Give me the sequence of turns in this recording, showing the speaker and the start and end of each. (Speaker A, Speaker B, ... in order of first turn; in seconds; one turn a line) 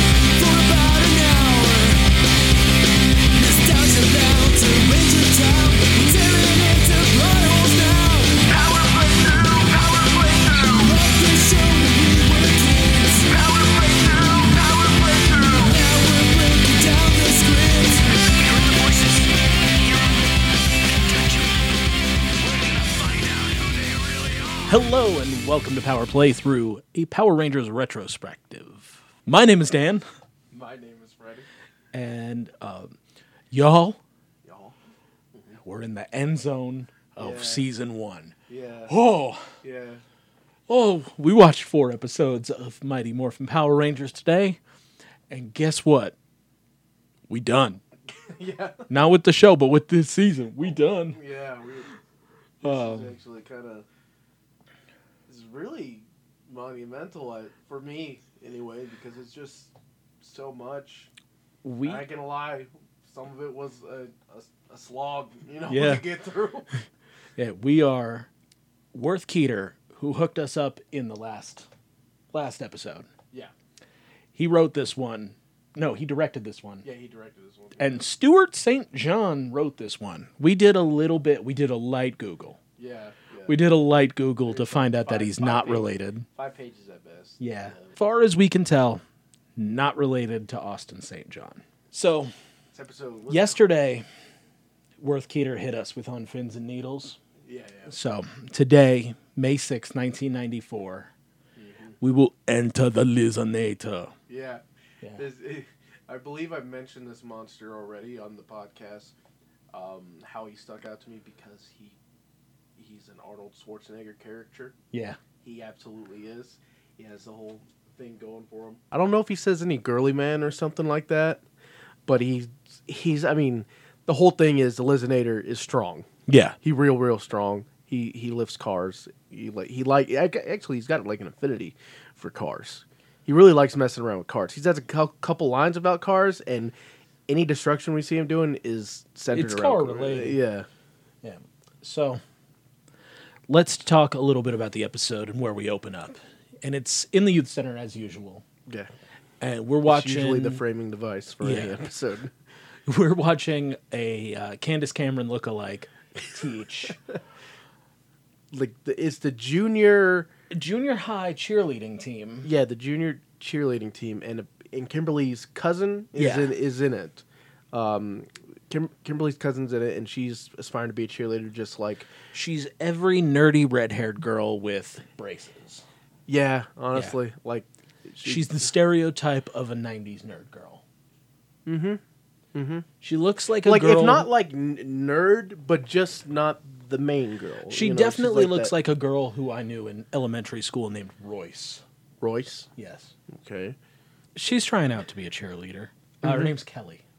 Speaker A: 0.4-2.1
Speaker A: 3.4-19.4
Speaker B: 15.7-17.9
Speaker B: 24.7-30.1
Speaker C: 30.5-31.5
Speaker B: 31.9-33.0
Speaker B: 33.5-34.0
Speaker C: 34.5-34.8
Speaker C: 35.3-35.6
Speaker B: 35.6-38.4
Speaker C: 37.2-37.6
Speaker C: 38.5-38.9
Speaker B: 38.9-39.5
Speaker C: 39.6-40.0
Speaker B: 40.7-44.6
Speaker B: 45.3-46.1
Speaker B: 47.3-47.8
Speaker C: 48.2-48.9
Speaker B: 48.9-51.2
Speaker C: 50.6-51.9
Speaker B: 52.6-53.1
Speaker C: 52.6-53.9
Speaker C: 55.3-61.1
Speaker B: 61.6-62.0
Speaker C: 61.8-66.7
Speaker B: 65.7-66.1
Speaker B: 67.4-68.3
Speaker B: 68.9-71.7
Speaker B: 72.3-73.1
Speaker B: 74.3-76.9
Speaker C: 76.8-77.9
Speaker B: 77.8-82.6
Speaker C: 82.8-83.5
Speaker B: 83.5-86.3
Speaker C: 84.5-87.9
Speaker B: 87.4-89.0
Speaker B: 89.6-92.3
Speaker C: 92.7-93.6
Speaker B: 93.3-94.1
Speaker B: 95.0-97.2
Speaker C: 97.5-97.9
Speaker B: 97.9-101.1
Speaker C: 101.6-102.0
Speaker B: 102.0-104.2
Speaker C: 104.3-104.6
Speaker C: 105.2-109.1
Speaker C: 109.7-112.0
Speaker C: 112.8-114.8
Speaker B: 114.9-115.2
Speaker C: 115.4-121.4
Speaker C: 122.1-126.1
Speaker B: 126.3-126.6
Speaker C: 126.6-136.7
Speaker C: 137.3-140.7
Speaker B: 139.3-140.4
Speaker B: 141.2-142.2
Speaker B: 143.5-148.5
Speaker B: 149.4-150.6
Speaker C: 149.9-152.3
Speaker B: 151.4-151.8
Speaker B: 152.9-157.0
Speaker C: 158.5-160.3
Speaker B: 160.5-162.5
Speaker C: 162.4-172.1
Speaker B: 166.2-166.5
Speaker B: 172.3-175.8
Speaker C: 176.3-178.5
Speaker B: 178.2-180.8
Speaker C: 181.7-182.0
Speaker C: 182.5-182.9
Speaker B: 183.0-184.3
Speaker C: 183.6-188.7
Speaker B: 187.7-191.8
Speaker C: 192.2-192.7
Speaker B: 192.8-193.1
Speaker C: 193.3-193.8
Speaker B: 194.4-197.0
Speaker C: 196.2-196.5